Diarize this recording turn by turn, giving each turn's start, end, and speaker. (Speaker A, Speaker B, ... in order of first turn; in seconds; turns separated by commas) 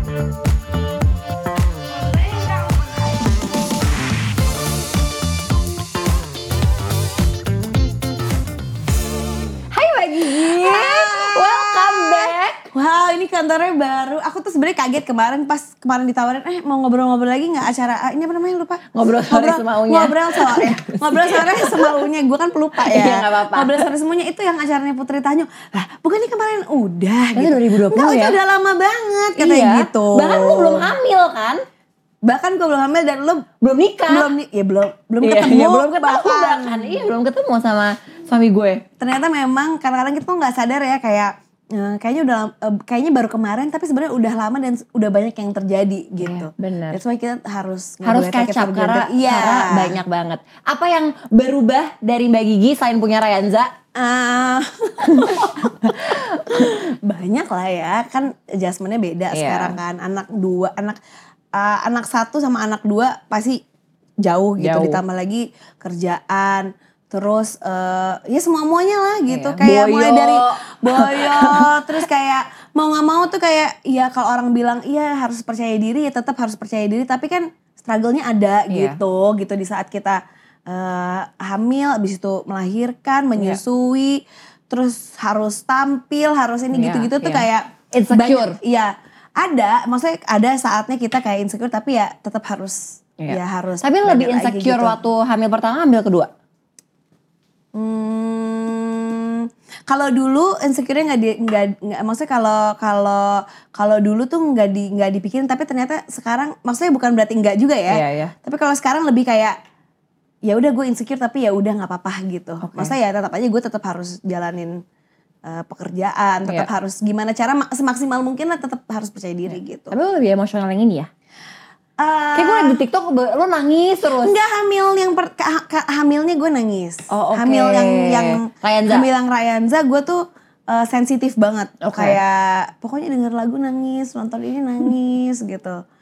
Speaker A: 9.7-12.7, Speaker B: 10.3-30.9, Speaker A: 18.9-22.1, Speaker A: 22.8-23.9, Speaker A: 27.4-28.4, Speaker A: 29.4-31.6, Speaker B: 32.2-33.5, Speaker A: 33.6-34.3, Speaker B: 34.1-37.0, Speaker A: 35.2-38.8, Speaker B: 39.0-50.0, Speaker A: 46.2-47.0, Speaker A: 48.0-53.7, Speaker B: 54.0-61.0, Speaker A: 55.1-56.8, Speaker A: 59.3-59.8, Speaker B: 61.5-63.6, Speaker B: 64.2-95.0, Speaker A: 64.6-65.0, Speaker A: 69.3-71.8, Speaker A: 78.7-79.0, Speaker A: 86.7-88.6, Speaker A: 93.2-96.3, Speaker B: 97.7-109.6, Speaker A: 107.9-108.3, Speaker B: 110.5-114.8, Speaker A: 112.6-112.9, Speaker B: 115.5-119.9, Speaker A: 119.5-121.1, Speaker B: 122.0-122.8, Speaker A: 122.3-124.3, Speaker B: 124.2-135.8, Speaker A: 127.1-129.1, Speaker A: 131.8-132.2